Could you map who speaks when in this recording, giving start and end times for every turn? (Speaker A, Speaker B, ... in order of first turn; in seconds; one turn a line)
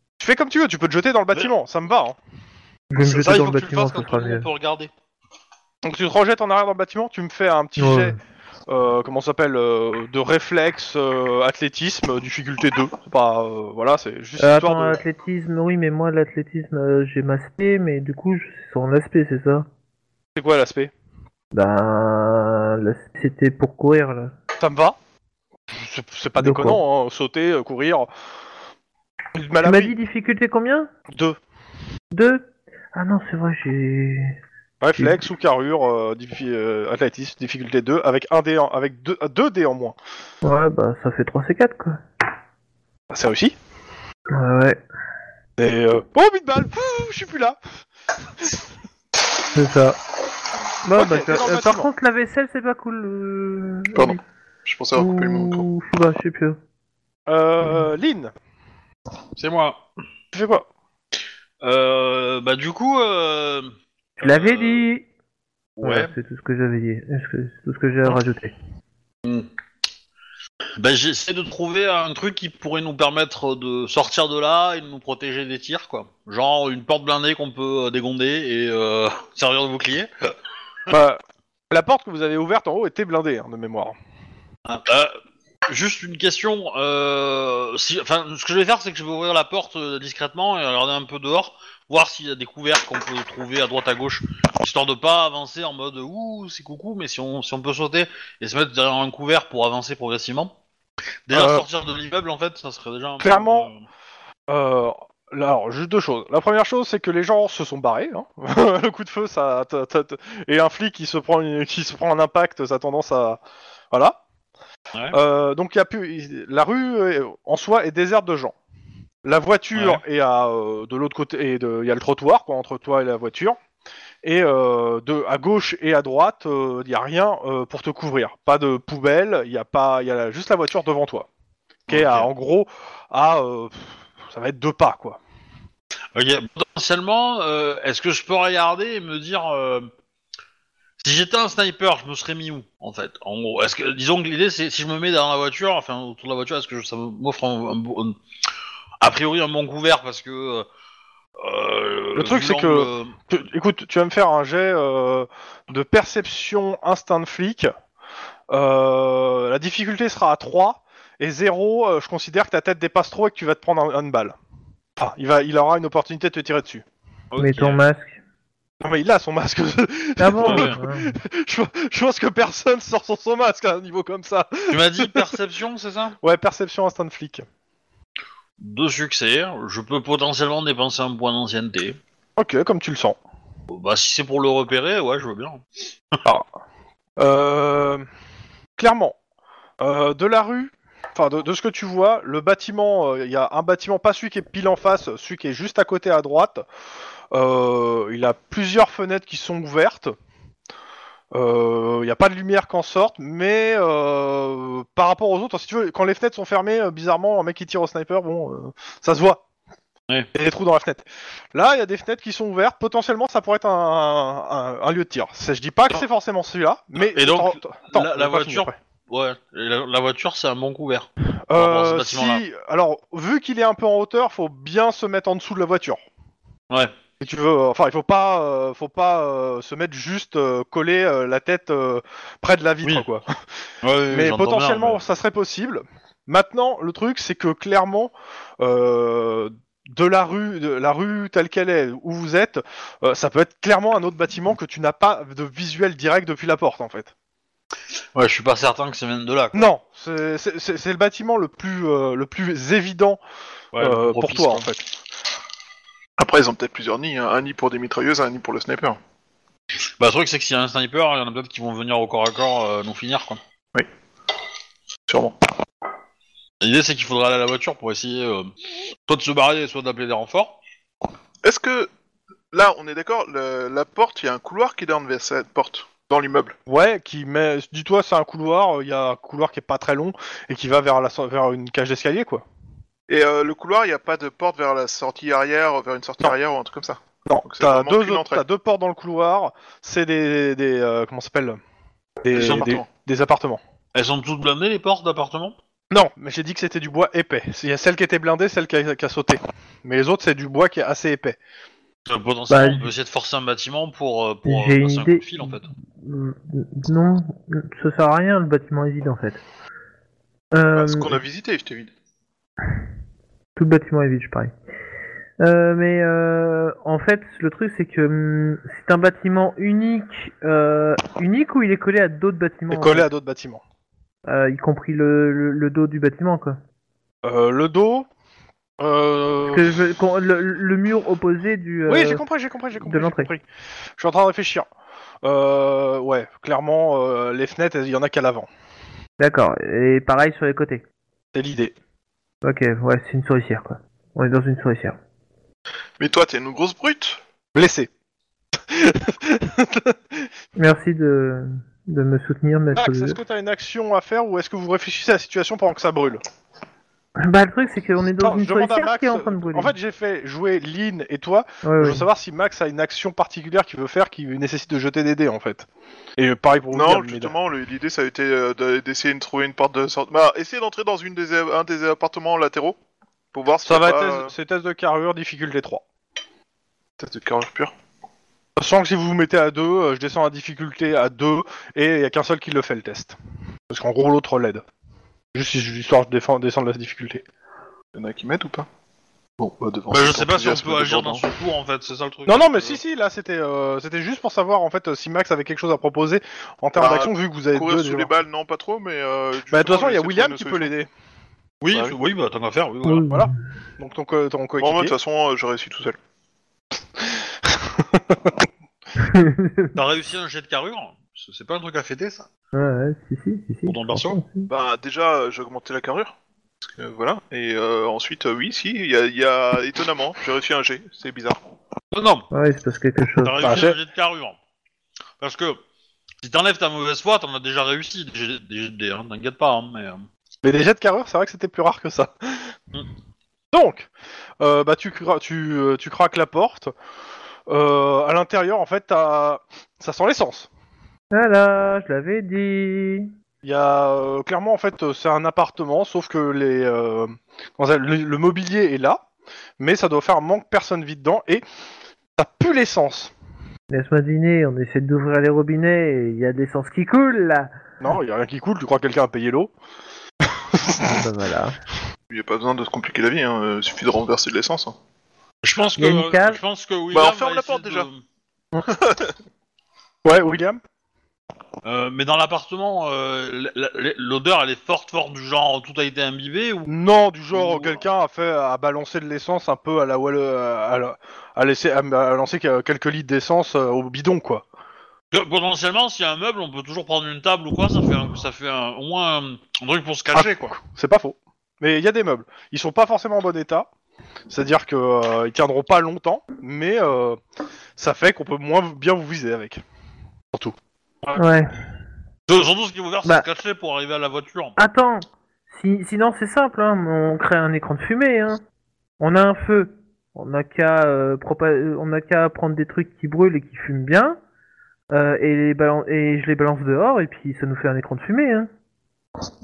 Speaker A: 0.2-2.2
Speaker B: 2.9-4.5
Speaker C: 3.0-4.9
Speaker A: 5.8-8.2
Speaker B: 7.8-8.2
Speaker A: 8.7-15.0
Speaker B: 14.4-19.7
Speaker A: 20.4-20.9
Speaker B: 21.5-24.3
Speaker A: 24.6-25.0
Speaker A: 25.7-28.1
Speaker B: 26.4-26.8
Speaker A: 29.3-29.9
Speaker B: 29.6-30.9
Speaker A: 31.1-31.4
Speaker B: 32.1-34.4
Speaker A: 34.8-40.0
Speaker B: 40.4-42.0
Speaker A: 43.1-43.5
Speaker B: 44.3-44.8
Speaker A: 45.6-47.6
Speaker B: 49.5-50.0
Speaker B: 50.8-54.2
Speaker A: 50.9-51.9
Speaker D: 53.9-55.7
Speaker B: 55.0-56.6
Speaker A: 57.3-58.3
Speaker C: 59.4-59.8
Speaker A: 60.3-60.7
Speaker C: 61.6-64.8
Speaker B: 64.2-65.0
Speaker C: 65.8-66.1
Speaker B: 65.8-68.5
Speaker C: 70.8-80.1
Speaker A: 80.9-83.9
Speaker C: 84.7-85.1
Speaker C: 85.7-100.5
Speaker C: 101.3-103.8
Speaker A: 101.3-101.7
Speaker A: 103.2-103.7
Speaker A: 104.5-114.2
Speaker A: 115.1-118.5
Speaker A: 119.2-123.6
Speaker C: 119.8-120.0
Speaker A: 124.2-131.3
Speaker A: 131.9-135.2
Speaker C: 131.9-132.3
Speaker C: 136.1-139.9
Speaker C: 141.0-148.2
Speaker C: 149.0-150.7
Speaker C: 151.4-153.1
Speaker A: 152.2-157.7
Speaker A: 158.5-164.3
Speaker A: 165.0-166.8
Speaker C: 167.3-167.8
Speaker B: 167.4-168.2
Speaker A: 168.8-175.3
Speaker B: 170.2-171.2
Speaker C: 170.4-170.8
Speaker C: 174.7-176.2
Speaker A: 176.2-177.4
Speaker C: 178.6-182.0
Speaker A: 182.4-183.2
Speaker C: 183.7-185.6
Speaker A: 187.2-188.0
Speaker A: 188.8-189.2
Speaker A: 189.8-196.7
Speaker A: 197.3-200.1
Speaker A: 201.3-209.4
Speaker A: 210.3-218.8
Speaker C: 217.0-222.4
Speaker A: 221.5-226.0
Speaker A: 227.2-233.3
Speaker C: 233.8-235.0
Speaker A: 234.1-247.1
Speaker C: 248.1-249.7
Speaker A: 249.5-253.2
Speaker C: 253.7-254.7
Speaker A: 253.8-254.9
Speaker D: 256.2-259.0
Speaker C: 260.0-263.4
Speaker D: 265.1-265.4
Speaker C: 266.6-268.5
Speaker C: 269.1-270.6
Speaker D: 271.4-271.9
Speaker D: 272.5-276.5
Speaker A: 276.6-282.4
Speaker D: 283.1-288.4
Speaker A: 287.2-291.6
Speaker A: 292.2-293.6
Speaker D: 292.3-292.9
Speaker C: 292.3-292.7
Speaker C: 293.9-295.6
Speaker A: 295.9-301.4
Speaker C: 302.1-305.7
Speaker B: 302.5-302.9
Speaker B: 304.4-309.4
Speaker B: 310.5-311.2
Speaker D: 310.7-311.9
Speaker B: 313.6-314.5
Speaker B: 315.4-323.1
Speaker A: 322.7-323.6
Speaker B: 324.2-326.6
Speaker A: 327.2-328.1
Speaker A: 328.8-329.8
Speaker B: 329.5-332.2
Speaker A: 331.9-333.4
Speaker B: 332.8-333.3
Speaker A: 334.0-334.7
Speaker A: 335.2-338.5
Speaker B: 339.2-340.8
Speaker A: 341.3-341.7
Speaker B: 342.4-345.0
Speaker D: 346.0-347.2
Speaker A: 347.5-347.9
Speaker A: 348.6-350.3
Speaker B: 350.6-353.2
Speaker A: 352.8-356.2
Speaker B: 357.2-359.7
Speaker A: 358.2-367.3
Speaker B: 361.6-362.0
Speaker D: 366.7-372.8
Speaker D: 373.3-374.3
Speaker A: 373.6-375.8
Speaker D: 377.0-377.7
Speaker A: 378.6-383.1
Speaker A: 383.7-384.6
Speaker A: 385.3-387.2
Speaker D: 387.9-388.7
Speaker D: 389.4-391.2
Speaker C: 389.9-392.8
Speaker A: 392.2-398.1
Speaker D: 396.8-400.7
Speaker A: 399.5-400.9
Speaker C: 401.6-403.1
Speaker B: 402.8-403.3
Speaker A: 403.1-404.9
Speaker D: 404.6-406.0
Speaker A: 407.0-408.4
Speaker B: 409.0-409.8
Speaker C: 409.8-412.3
Speaker B: 412.5-414.5
Speaker C: 413.6-414.2
Speaker D: 414.5-421.4
Speaker C: 421.9-422.3
Speaker B: 422.3-423.4
Speaker C: 423.2-424.4
Speaker A: 423.4-423.8
Speaker C: 425.2-425.6
Speaker C: 426.2-430.1
Speaker A: 430.4-432.6
Speaker A: 433.5-433.9
Speaker A: 434.4-436.7
Speaker A: 437.5-440.5
Speaker B: 441.1-443.1
Speaker A: 443.4-449.0
Speaker A: 449.6-451.4
Speaker A: 452.2-453.1
Speaker B: 453.7-457.5
Speaker A: 457.8-459.5
Speaker A: 460.2-461.0
Speaker B: 460.8-461.6
Speaker D: 462.1-464.8
Speaker C: 465.4-468.0
Speaker B: 465.8-466.4
Speaker D: 466.9-467.9
Speaker D: 468.6-469.1
Speaker A: 470.0-470.6
Speaker C: 471.6-476.7
Speaker A: 476.7-484.4
Speaker C: 477.3-477.8
Speaker C: 485.1-490.6
Speaker A: 490.1-493.7
Speaker A: 494.3-497.2
Speaker A: 497.8-499.6
Speaker B: 501.1-501.5
Speaker C: 502.3-504.5
Speaker B: 504.6-508.4
Speaker B: 509.0-514.2
Speaker B: 514.9-518.5